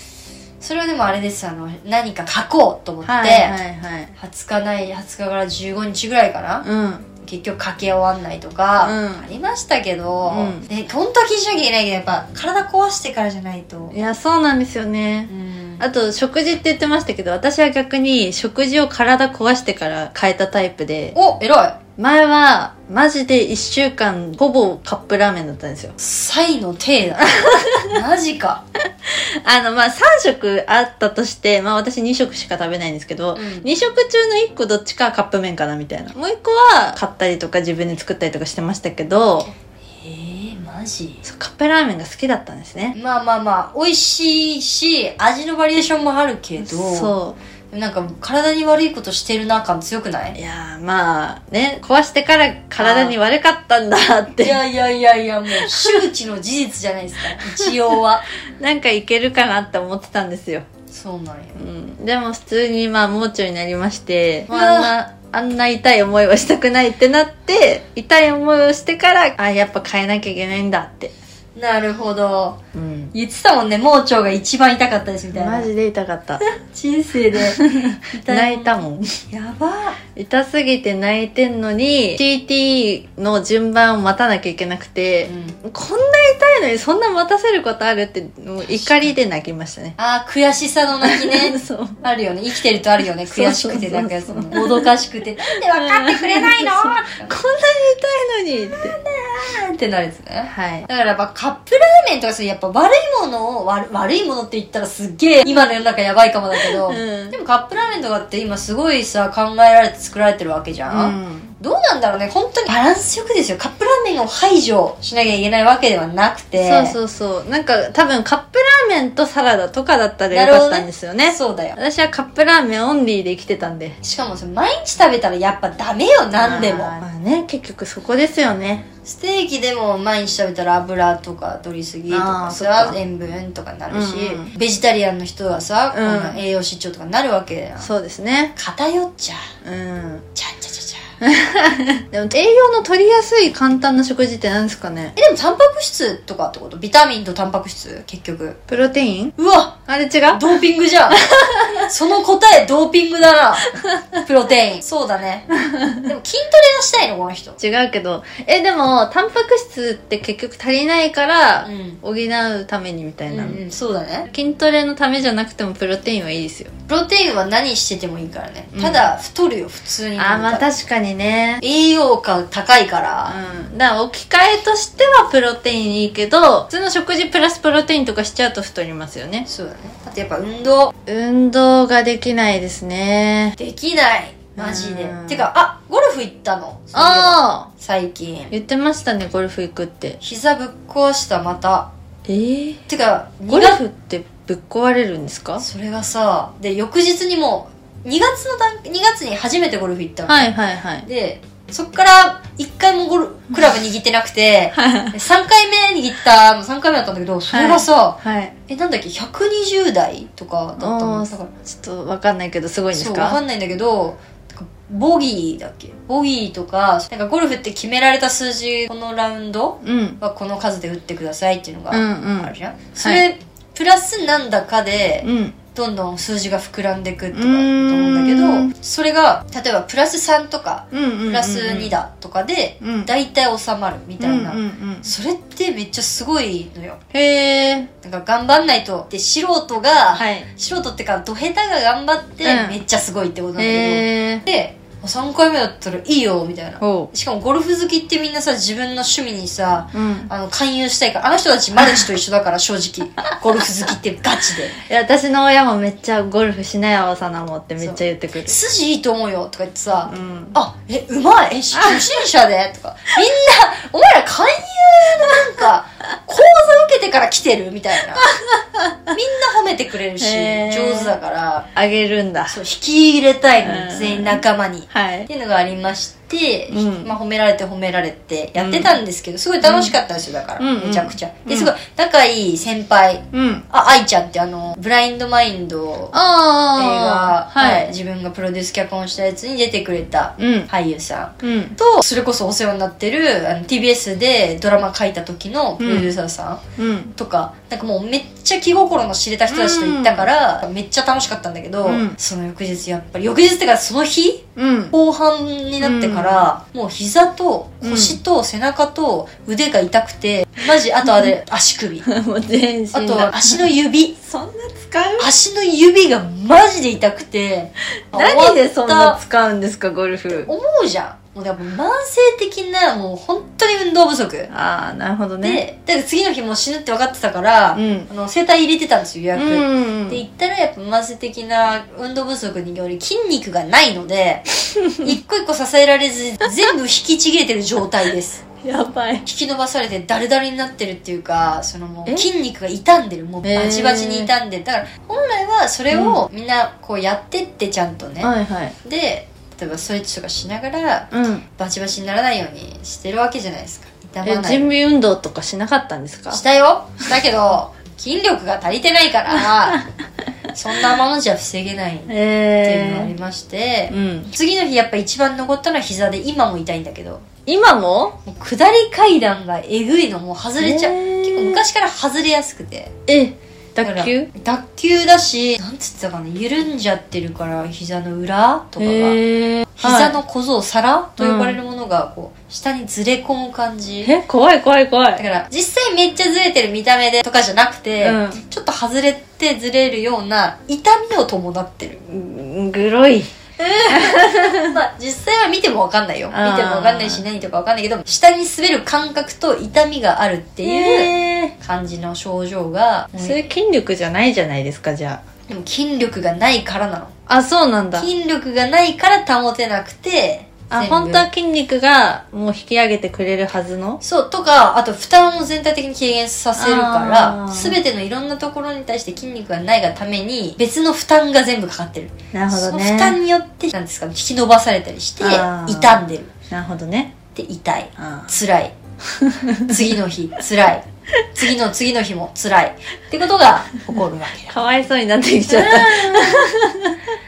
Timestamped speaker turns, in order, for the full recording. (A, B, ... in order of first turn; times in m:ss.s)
0:00.6-0:03.6 A
0:03.0-0:04.1 B
0:04.2-0:06.6 A
0:06.6-0:07.0 B
0:07.2-0:14.0 A
0:08.8-0:09.2 B
0:10.3-0:10.7 B
0:13.9-0:21.2 B
0:15.3-0:15.8 A
0:21.1-0:21.8 A
0:22.0-0:25.9 B
0:26.0-0:28.6 A
0:27.4-0:28.0 B
0:29.0-0:39.5 B
0:33.4-0:33.7 A
0:40.0-0:41.2 A
0:41.2-0:42.9 B
0:42.9-0:47.1 A
0:46.6-0:47.4 B
0:47.7-0:50.4 A
0:50.4-0:54.6 B
0:52.8-0:53.2 A
0:54.4-0:58.2 A
0:55.5-0:56.0 B
0:57.3-0:57.7 B
0:58.6-1:00.6 B
1:00.9-1:01.6 A
1:01.6-1:11.1 B
1:04.5-1:04.9 A
1:11.6-1:12.6 A
1:12.7-1:13.1 B
1:13.1-1:15.7 A
1:15.3-1:16.4 B
1:16.4-1:20.0 A
1:17.5-1:19.2 B
1:20.1-1:30.0 B
1:25.2-1:25.6 A
1:28.6-1:29.1 A
1:30.0-1:37.3 A
1:31.0-1:32.0 B
1:33.2-1:34.9 B
1:35.5-1:39.0 B
1:38.7-1:57.0 A
1:40.5-1:40.9 B
1:46.5-1:47.4 B
1:50.9-1:51.5 B
1:56.6-2:04.0 B
2:00.3-2:01.8 A
2:04.0-2:06.9 A
2:06.4-2:08.8 B
2:09.0-2:17.9 A
2:12.1-2:13.0 B
2:13.9-2:14.5 B
2:15.9-2:16.4 B
2:17.8-2:18.5 B
2:18.6-2:19.5 A
2:19.6-2:20.3 B
2:20.4-2:21.0 A
2:21.2-2:25.1 B
2:25.2-2:28.6 A
2:28.7-2:29.3 B
2:29.4-2:29.8 A
2:29.8-2:30.4 B
2:30.3-2:37.6 A
2:31.1-2:31.9 B
2:33.8-2:34.2 B
2:35.7-2:36.0 B
2:37.6-2:43.6 B
2:41.6-2:42.0 A
2:43.3-2:44.3 A
2:44.3-2:46.7 B
2:46.9-2:50.7 A
2:48.7-2:49.0 B
2:50.2-2:51.6 B
2:51.6-2:53.4 A
2:53.3-2:59.5 B
2:59.4-3:00.9 A
3:01.0-3:03.6 B
3:03.6-3:08.5 A
3:04.6-3:05.5 B
3:06.9-3:07.7 B
3:08.5-3:10.2 B
3:10.2-3:11.9 A
3:12.3-3:12.8 B
3:12.9-3:13.8 A
3:13.5-3:15.6 B
3:15.6-3:31.5 A
3:20.3-3:21.0 B
3:24.7-3:25.1 B
3:27.5-3:28.5 B
3:30.8-3:33.4 B
3:32.9-3:57.0 A
3:39.8-3:40.2 B
3:41.9-3:43.2 B
3:45.2-3:45.6 B
3:47.3-3:48.7 B
3:50.9-3:51.9 B
3:52.8-3:53.1 B
3:54.2-3:55.1 B
3:57.1-3:57.9 B
3:58.0-4:14.8 A
4:00.1-4:00.4 B
4:02.4-4:02.8 B
4:03.6-4:04.4 B
4:06.8-4:07.1 B
4:09.9-4:10.3 B
4:14.8-4:18.6 B
4:17.8-4:28.3 A
4:20.1-4:20.6 B
4:21.8-4:22.1 B
4:28.4-4:29.1 B
4:29.1-4:31.7 A
4:30.2-4:31.1 B
4:31.7-4:32.6 B
4:32.5-4:46.2 A
4:33.6-4:35.3 B
4:36.7-4:37.1 B
4:38.6-4:39.0 B
4:39.6-4:39.9 B
4:40.6-4:41.7 B
4:43.3-4:43.6 B
4:46.1-4:47.9 B
4:46.7-4:56.6 A
4:50.4-4:50.7 B
4:51.4-4:51.8 B
4:55.8-4:56.1 B
4:56.8-4:57.1 B
4:57.2-5:12.1 A
4:59.5-5:00.3 B
5:01.8-5:02.2 B
5:04.6-5:04.9 B
5:05.8-5:06.4 B
5:07.8-5:08.2 B
5:12.0-5:13.7 B
5:12.9-5:14.1 A
5:14.2-5:15.3 B
5:15.2-5:19.2 A
5:18.1-5:20.5 B
5:20.3-5:24.5 A
5:24.5-5:25.6 B
5:25.4-5:38.4 A
5:27.7-5:28.1 B
5:29.3-5:30.2 B
5:34.7-5:35.1 B
5:38.6-5:39.2 B
5:39.2-5:48.3 A
5:43.4-5:44.3 B
5:45.9-5:46.2 B
5:48.2-5:48.7 B
5:48.8-5:54.7 A
5:51.1-5:51.4 B
5:54.2-5:56.4 B
5:56.3-5:59.8 A
6:00.5-6:07.2 A
6:02.1-6:03.1 B
6:03.9-6:04.3 B
6:07.4-6:08.2 B
6:08.2-6:12.9 A
6:10.6-6:11.6 B
6:13.1-6:14.3 B
6:13.8-6:19.2 A
6:18.8-6:20.2 B
6:19.8-6:24.1 A
6:21.2-6:21.6 B
6:24.0-6:25.2 B
6:25.2-6:32.0 A
6:28.0-6:28.4 B
6:32.1-6:33.3 B
6:33.6-6:43.4 A
6:33.9-6:34.7 B
6:36.3-6:37.2 B
6:40.6-6:41.5 B
6:43.2-6:45.2 B
6:45.5-6:47.1 A
6:47.3-6:48.1 B
6:48.0-6:51.2 A
6:50.7-6:54.0 B
6:54.0-7:06.3 A
6:56.6-6:57.8 B
7:02.3-7:03.2 B
7:05.2-7:07.1 B
7:07.3-7:08.7 A
7:08.0-7:08.3 B
7:09.1-7:09.9 B
7:09.7-7:14.6 A
7:14.5-7:17.0 B
7:15.5-7:16.4 A